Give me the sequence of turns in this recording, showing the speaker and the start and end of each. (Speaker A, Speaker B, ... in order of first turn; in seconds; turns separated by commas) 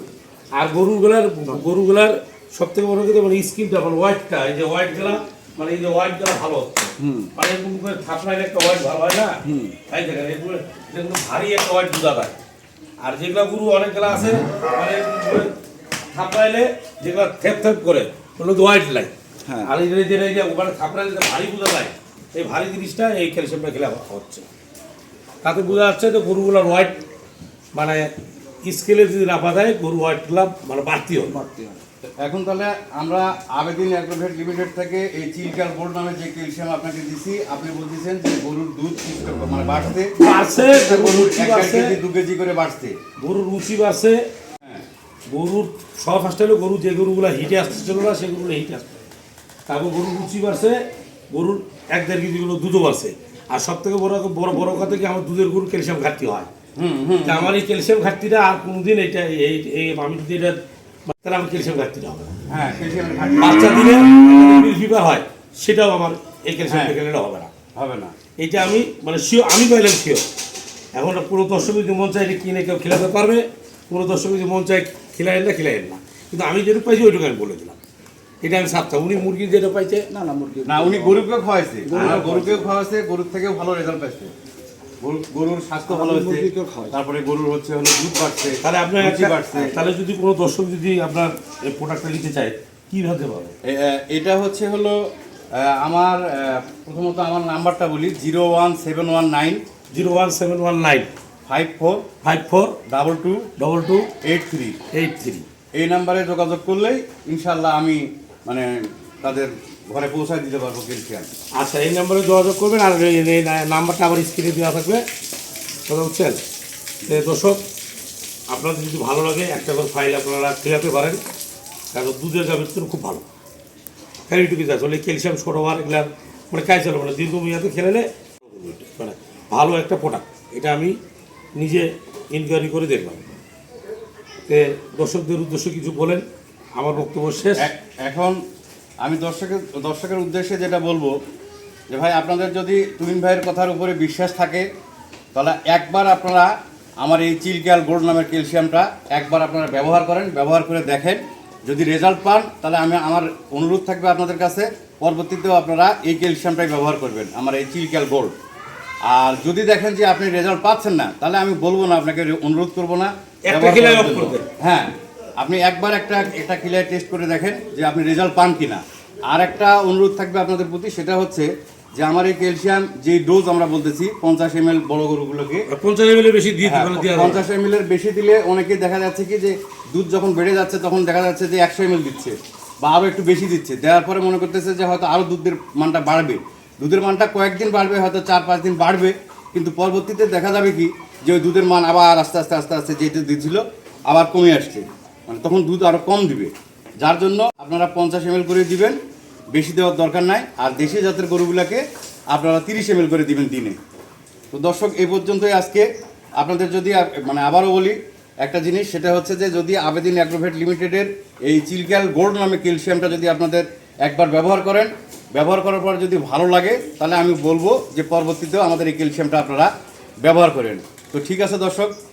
Speaker A: 0.5-12.4, Speaker B: 7.0-7.3, Speaker B: 9.4-9.8, Speaker A: 13.0-15.5, Speaker A: 16.1-19.1, Speaker B: 19.5-19.7, Speaker A: 19.6-24.5, Speaker A: 25.4-27.0, Speaker A: 27.7-28.1, Speaker A: 28.6-31.4, Speaker B: 31.3-31.8, Speaker C: 32.2-43.0, Speaker A: 40.2-42.0, Speaker A: 43.2-44.2, Speaker A: 45.3-49.0, Speaker A: 49.7-56.5, Speaker C: 56.8-57.5, Speaker A: 57.2-62.3, Speaker C: 62.5-63.8, Speaker A: 63.4-67.5, Speaker C: 66.7-67.0, Speaker C: 67.8-68.2, Speaker A: 68.4-70.3, Speaker A: 70.9-77.8, Speaker A: 78.4-80.1, Speaker B: 80.1-81.3, Speaker C: 80.7-84.3, Speaker B: 81.8-82.7, Speaker A: 81.9-82.4, Speaker C: 85.0-89.8, Speaker B: 85.9-87.0, Speaker A: 88.6-93.5, Speaker C: 93.7-99.6, Speaker A: 99.9-101.1, Speaker C: 101.5-102.0, Speaker A: 102.2-102.8, Speaker C: 102.9-103.5, Speaker A: 103.6-104.1, Speaker C: 104.2-104.8, Speaker A: 104.9-105.5, Speaker C: 105.7-111.3, Speaker A: 111.5-115.1, Speaker A: 115.9-116.4, Speaker A: 117.0-117.6, Speaker A: 118.5-121.2, Speaker A: 121.9-123.2, Speaker A: 124.3-131.0, Speaker A: 131.6-133.2, Speaker A: 134.5-137.7, Speaker C: 137.6-138.4, Speaker C: 139.0-141.2, Speaker C: 141.9-144.7, Speaker C: 145.3-158.3, Speaker C: 159.1-175.7, Speaker A: 163.4-164.4, Speaker A: 175.7-177.5, Speaker C: 176.6-199.0, Speaker C: 199.5-203.8, Speaker C: 204.5-205.8, Speaker C: 206.4-219.7, Speaker C: 220.2-221.9